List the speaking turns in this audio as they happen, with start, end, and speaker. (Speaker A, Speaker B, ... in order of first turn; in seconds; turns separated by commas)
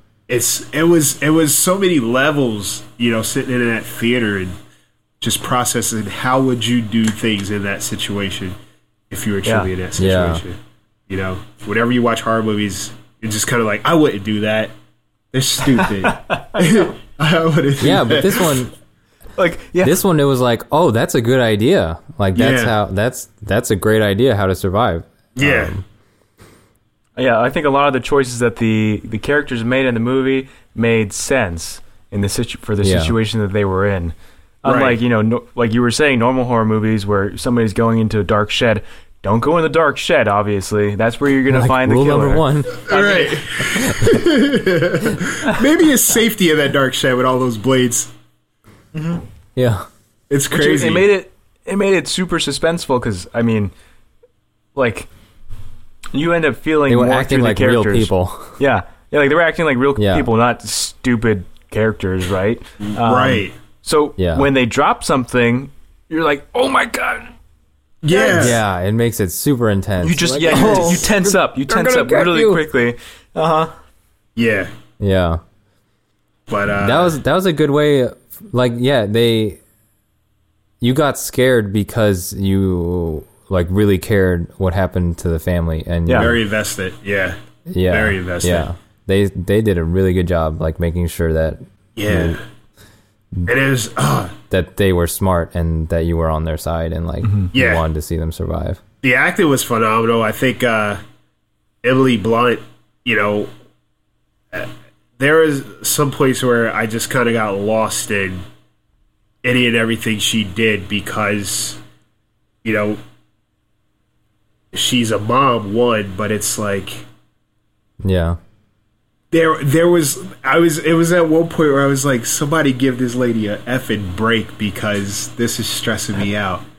Speaker A: 0.3-4.5, Speaker A: 5.2-8.6, Speaker A: 9.1-10.6, Speaker B: 9.4-9.7, Speaker C: 10.0-10.4, Speaker A: 11.1-14.7, Speaker A: 15.3-18.6, Speaker B: 15.7-16.9, Speaker C: 17.8-18.7, Speaker B: 19.4-20.0, Speaker C: 19.8-25.8, Speaker A: 22.4-22.7, Speaker A: 25.4-25.7, Speaker B: 27.2-43.5, Speaker C: 32.8-33.1, Speaker A: 34.6-35.0, Speaker C: 41.5-42.8, Speaker A: 42.9-48.1, Speaker C: 43.6-44.4, Speaker B: 49.0-49.2, Speaker C: 49.6-49.9, Speaker A: 50.3-51.1, Speaker B: 50.5-53.7, Speaker B: 54.8-55.1, Speaker B: 56.1-67.3, Speaker C: 56.9-58.6, Speaker C: 60.0-60.3, Speaker A: 62.9-63.5, Speaker C: 64.2-64.5, Speaker A: 68.0-68.6, Speaker B: 68.1-68.6, Speaker C: 68.3-72.6, Speaker B: 70.0-73.7, Speaker A: 70.5-71.1, Speaker A: 74.4-74.7, Speaker C: 75.0-75.4, Speaker A: 76.5-77.2, Speaker C: 76.8-79.6, Speaker C: 80.8-86.4, Speaker B: 86.1-86.3, Speaker A: 86.1-87.4, Speaker C: 87.7-92.4, Speaker A: 87.9-88.7, Speaker A: 92.0-92.4, Speaker A: 93.5-94.3, Speaker C: 94.5-98.8, Speaker B: 97.2-97.5, Speaker A: 97.5-97.8, Speaker A: 99.0-101.0, Speaker A: 101.8-103.5, Speaker A: 104.5-108.4, Speaker A: 109.4-111.8, Speaker A: 112.6-113.0, Speaker A: 114.7-117.0, Speaker C: 118.0-118.4, Speaker A: 119.3-126.6